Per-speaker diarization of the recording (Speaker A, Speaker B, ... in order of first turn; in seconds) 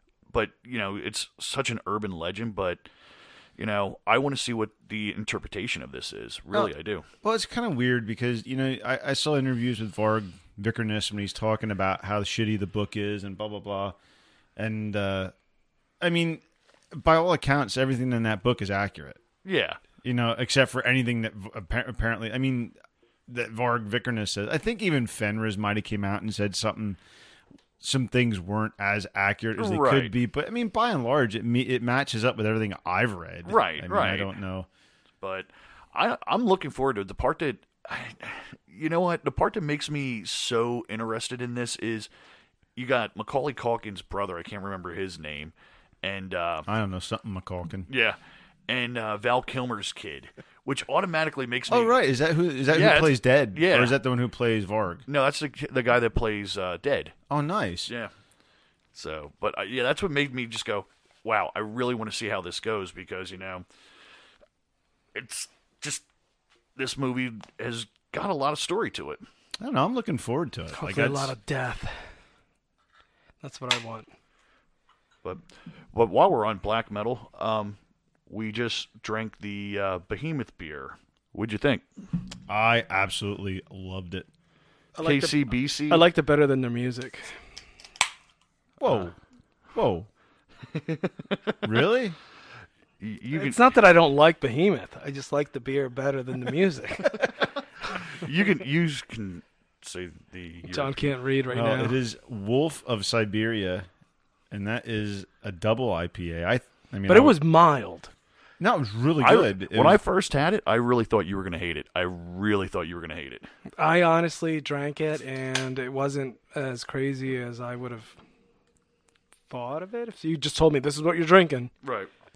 Speaker A: 0.3-2.8, 3.6-7.0, 19.4-19.8, 29.6-30.1, 33.5-34.3, 35.2-42.1, 42.8-46.7, 47.9-52.0, 52.7-54.0, 55.1-57.1, 58.9-63.6, 65.1-66.0, 66.8-69.2, 75.2-81.8, 85.0-86.0, 90.7-91.5, 93.0-93.6, 98.1-101.0, 109.2-113.5, 121.8-122.1
Speaker B: 7.2-13.9, 14.6-15.3, 16.0-16.4, 16.9-19.2, 20.0-22.7, 23.3-27.0, 27.8-34.7, 46.6-47.9, 51.7-55.0, 57.3-57.9, 69.6-71.3, 82.5-84.3, 88.8-89.1, 89.7-90.1, 91.6-92.2, 101.5-103.9, 104.5-107.4, 108.6-110.0
Speaker C: 70.7-71.9, 73.4-74.1, 85.0-87.3, 93.3-97.3, 100.7-102.0, 107.1-108.1, 113.8-118.2, 119.5-121.7